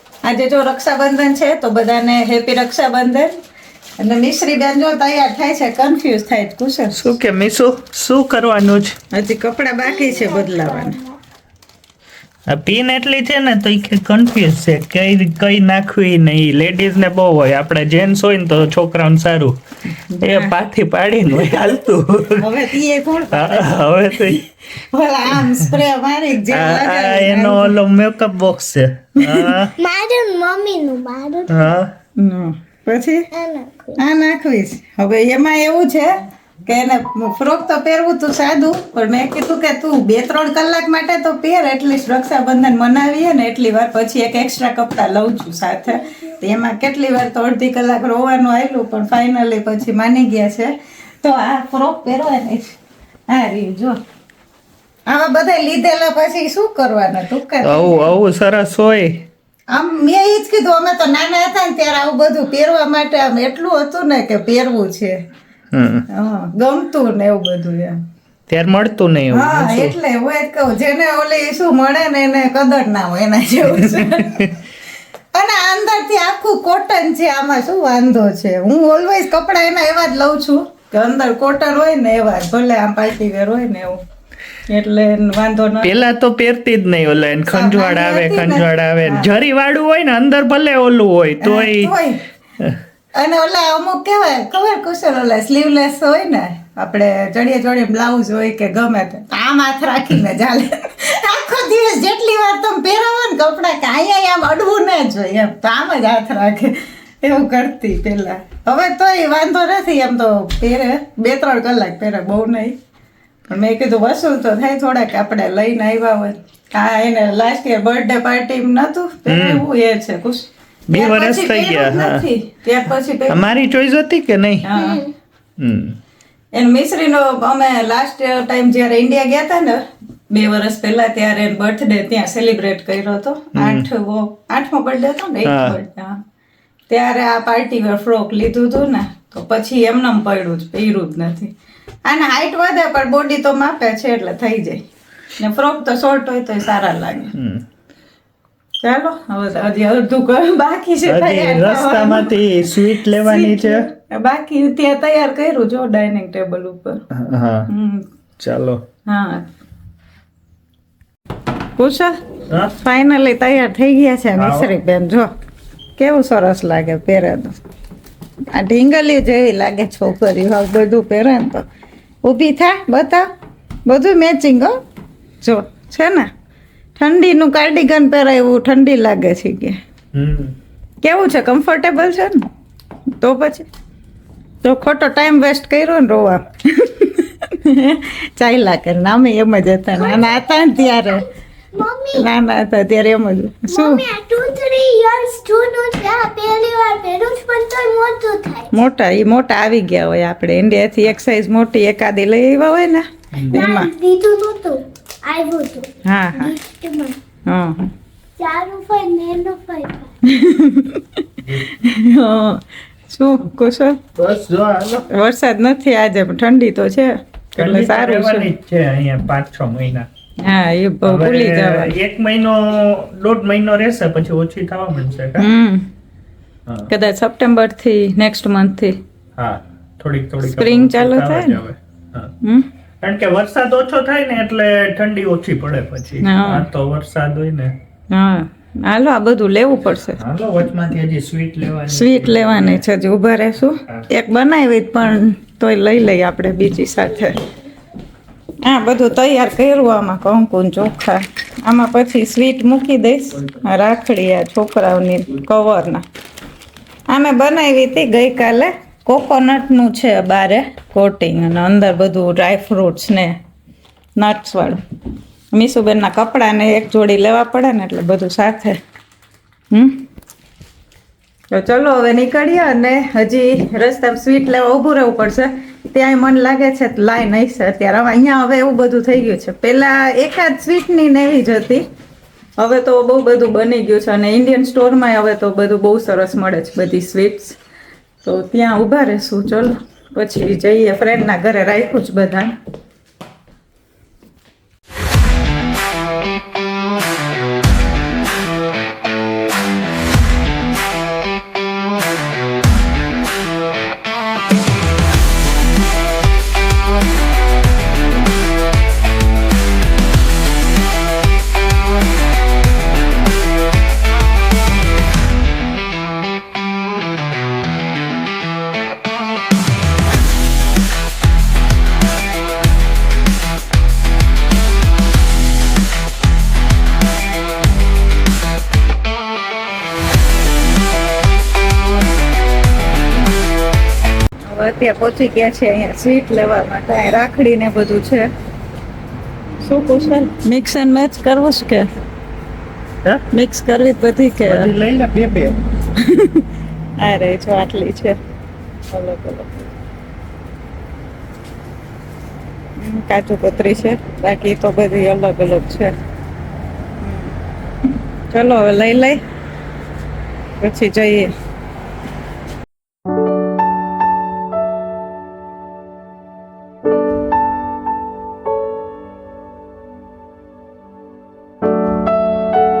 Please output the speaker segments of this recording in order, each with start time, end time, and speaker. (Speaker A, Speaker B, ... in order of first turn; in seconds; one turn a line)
Speaker A: 0.2-3.4
Speaker A: 4.0-7.0
Speaker B: 6.9-8.9
Speaker A: 9.1-11.0
Speaker C: 9.8-11.2
Speaker B: 12.5-19.6
Speaker A: 20.1-20.5
Speaker B: 20.2-22.6
Speaker A: 22.4-23.9
Speaker B: 23.3-24.4
Speaker A: 24.9-27.8
Speaker B: 26.5-29.7
Speaker A: 29.2-29.5
Speaker C: 29.8-31.8
Speaker B: 31.5-31.9
Speaker A: 32.2-33.3
Speaker C: 33.3-34.0
Speaker A: 34.0-52.8
Speaker A: 53.3-54.0
Speaker A: 55.1-58.1
Speaker B: 57.6-59.2
Speaker A: 59.7-65.2
Speaker B: 65.7-66.0
Speaker A: 66.1-68.0
Speaker B: 68.5-70.0
Speaker A: 69.3-74.5
Speaker B: 73.7-74.5
Speaker A: 75.3-84.0
Speaker A: 84.7-85.9
Speaker B: 85.8-91.9
Speaker A: 87.5-89.3
Speaker A: 91.4-92.2
Speaker A: 93.1-112.8
Speaker A: 113.5-123.4
Speaker B: 119.3-119.6
Speaker B: 120.9-122.3
Speaker B: 123.3-124.7
Speaker A: 124.6-125.0
Speaker C: 124.7-125.1
Speaker B: 125.6-126.0
Speaker A: 126.5-136.2
Speaker B: 133.5-133.9
Speaker B: 135.4-135.8
Speaker A: 136.9-141.5
Speaker A: 142.1-144.8
Speaker A: 145.4-147.3
Speaker B: 147.3-147.6
Speaker A: 148.8-152.3
Speaker B: 151.1-153.8
Speaker A: 153.1-157.0
Speaker B: 157.1-157.7
Speaker A: 157.7-158.0
Speaker B: 158.4-158.8
Speaker A: 159.1-159.4
Speaker A: 161.8-162.2
Speaker B: 162.5-162.7
Speaker A: 162.8-165.3
Speaker B: 164.4-164.7
Speaker A: 166.0-167.5
Speaker A: 168.5-171.6
Speaker A: 172.2-173.3
Speaker A: 173.8-174.8
Speaker A: 175.4-176.3
Speaker A: 177.0-179.8
Speaker B: 180.1-180.5
Speaker A: 181.0-182.4
Speaker A: 183.2-183.7
Speaker A: 184.6-191.2
Speaker C: 189.9-191.2
Speaker C: 191.7-192.3
Speaker A: 192.1-194.0
Speaker C: 193.7-198.7
Speaker A: 198.7-203.9
Speaker B: 203.3-203.6
Speaker C: 203.5-207.2
Speaker A: 206.1-206.5
Speaker A: 207.5-207.9
Speaker C: 208.4-210.1
Speaker A: 210.2-211.0
Speaker B: 211.4-211.7
Speaker A: 211.8-214.0
Speaker B: 214.2-215.1
Speaker A: 215.1-218.5
Speaker B: 217.6-220.1
Speaker A: 220.4-221.9
Speaker B: 221.0-225.5
Speaker A: 225.4-225.9
Speaker A: 226.9-229.0
Speaker B: 229.4-232.3
Speaker A: 230.4-231.6
Speaker B: 233.0-237.7
Speaker A: 236.2-236.7
Speaker A: 238.1-240.2
Speaker B: 240.2-242.8
Speaker A: 241.9-247.4
Speaker A: 248.6-256.0
Speaker A: 257.1-263.4
Speaker A: 264.2-264.8
Speaker A: 265.5-268.8
Speaker A: 269.7-270.0
Speaker A: 271.5-281.9
Speaker A: 282.6-287.6
Speaker A: 288.2-292.5
Speaker A: 334.5-338.3
Speaker A: 339.6-341.9
Speaker A: 343.3-344.7
Speaker B: 344.4-345.6
Speaker A: 346.0-346.4
Speaker A: 347.0-348.2
Speaker A: 348.9-349.7
Speaker A: 352.8-355.9
Speaker A: 357.0-357.3
Speaker A: 358.3-359.2
Speaker A: 360.6-361.3